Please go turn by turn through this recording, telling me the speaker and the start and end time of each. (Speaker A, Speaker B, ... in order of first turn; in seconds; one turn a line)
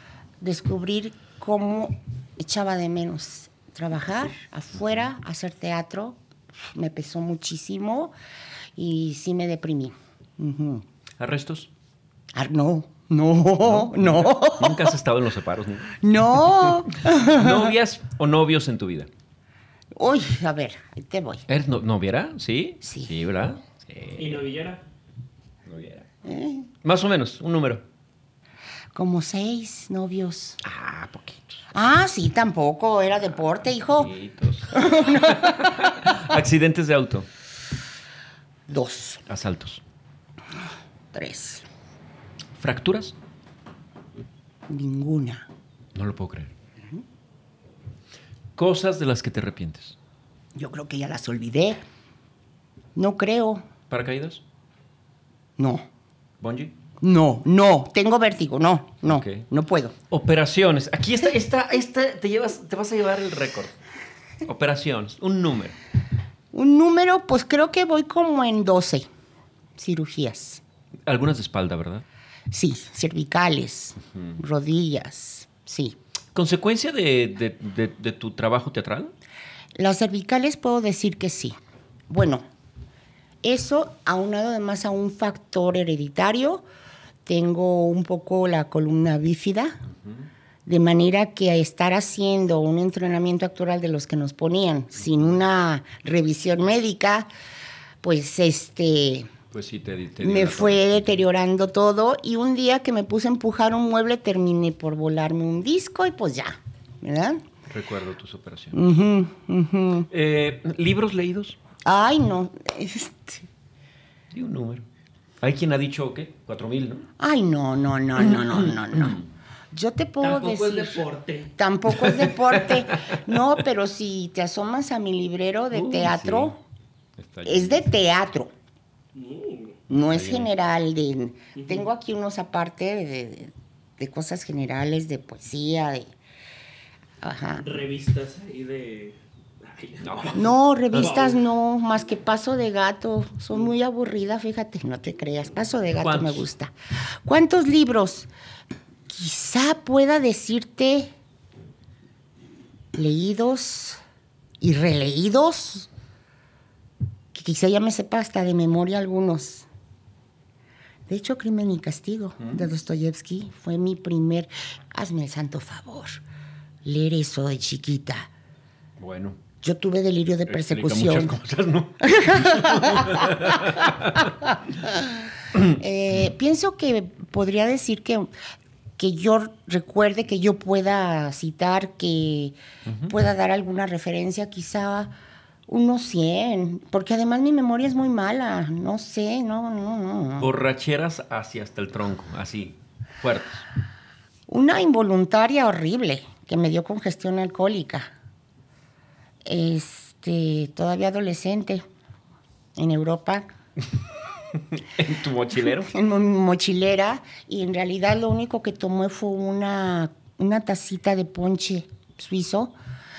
Speaker A: 0.4-8.1
Speaker A: 8.8-10.8
Speaker B: 11.2-11.7
Speaker A: 12.3-15.0
Speaker B: 13.6-16.0
Speaker A: 16.0-17.7
Speaker B: 16.7-19.1
Speaker A: 19.9-21.4
Speaker B: 21.5-24.4
Speaker A: 22.8-23.1
Speaker C: 24.1-24.8
Speaker B: 25.6-26.1
Speaker A: 26.2-26.7
Speaker B: 26.8-27.9
Speaker A: 28.9-30.6
Speaker B: 30.6-31.6
Speaker A: 31.7-34.1
Speaker B: 33.9-37.3
Speaker A: 34.7-36.1
Speaker A: 38.7-39.2
Speaker B: 39.3-39.8
Speaker A: 41.1-41.6
Speaker B: 42.6-43.2
Speaker A: 44.7-45.5
Speaker B: 46.0-46.5
Speaker B: 48.6-50.0
Speaker A: 50.5-51.8
Speaker A: 53.0-53.7
Speaker B: 53.9-54.4
Speaker A: 55.6-55.9
Speaker B: 56.4-56.8
Speaker A: 57.0-60.0
Speaker B: 59.0-59.5
Speaker B: 60.1-63.8
Speaker B: 64.4-65.8
Speaker A: 66.5-69.1
Speaker A: 69.8-70.6
Speaker B: 71.1-72.0
Speaker A: 72.5-76.0
Speaker B: 74.1-74.4
Speaker B: 76.3-79.1
Speaker A: 79.8-81.6
Speaker A: 82.1-82.4
Speaker A: 83.4-86.6
Speaker A: 87.2-89.8
Speaker B: 89.9-90.3
Speaker A: 90.7-97.3
Speaker A: 98.0-99.3
Speaker B: 99.5-101.2
Speaker A: 100.2-107.5
Speaker B: 107.7-108.8
Speaker A: 108.7-110.1
Speaker B: 110.1-111.6
Speaker A: 111.8-113.5
Speaker B: 114.3-114.8
Speaker B: 115.4-117.1
Speaker A: 117.2-119.2
Speaker B: 118.2-119.3
Speaker A: 119.7-121.0
Speaker C: 120.2-121.5
Speaker A: 121.6-126.6
Speaker B: 121.9-123.2
Speaker B: 125.7-126.5
Speaker B: 127.2-127.9
Speaker A: 127.4-128.5
Speaker C: 129.1-129.8
Speaker A: 129.9-136.1
Speaker B: 130.0-130.5
Speaker C: 131.6-131.8
Speaker A: 137.2-137.6
Speaker C: 137.5-141.4
Speaker B: 140.0-141.1
Speaker A: 140.3-148.3
Speaker B: 146.0-146.5
Speaker A: 149.1-151.1
Speaker A: 152.9-154.0
Speaker A: 154.6-155.9
Speaker A: 157.3-159.7
Speaker A: 161.1-166.2
Speaker B: 162.4-162.6
Speaker A: 166.8-168.3
Speaker B: 169.0-169.4
Speaker A: 169.6-171.4
Speaker B: 170.5-174.4
Speaker A: 172.0-178.3
Speaker B: 175.5-176.3
Speaker A: 179.0-182.6
Speaker B: 182.9-183.1
Speaker A: 183.1-185.1
Speaker A: 185.7-190.5
Speaker B: 190.4-193.6
Speaker A: 194.5-198.1
Speaker A: 199.4-201.8
Speaker A: 202.8-203.5
Speaker B: 204.5-205.9
Speaker A: 205.7-212.8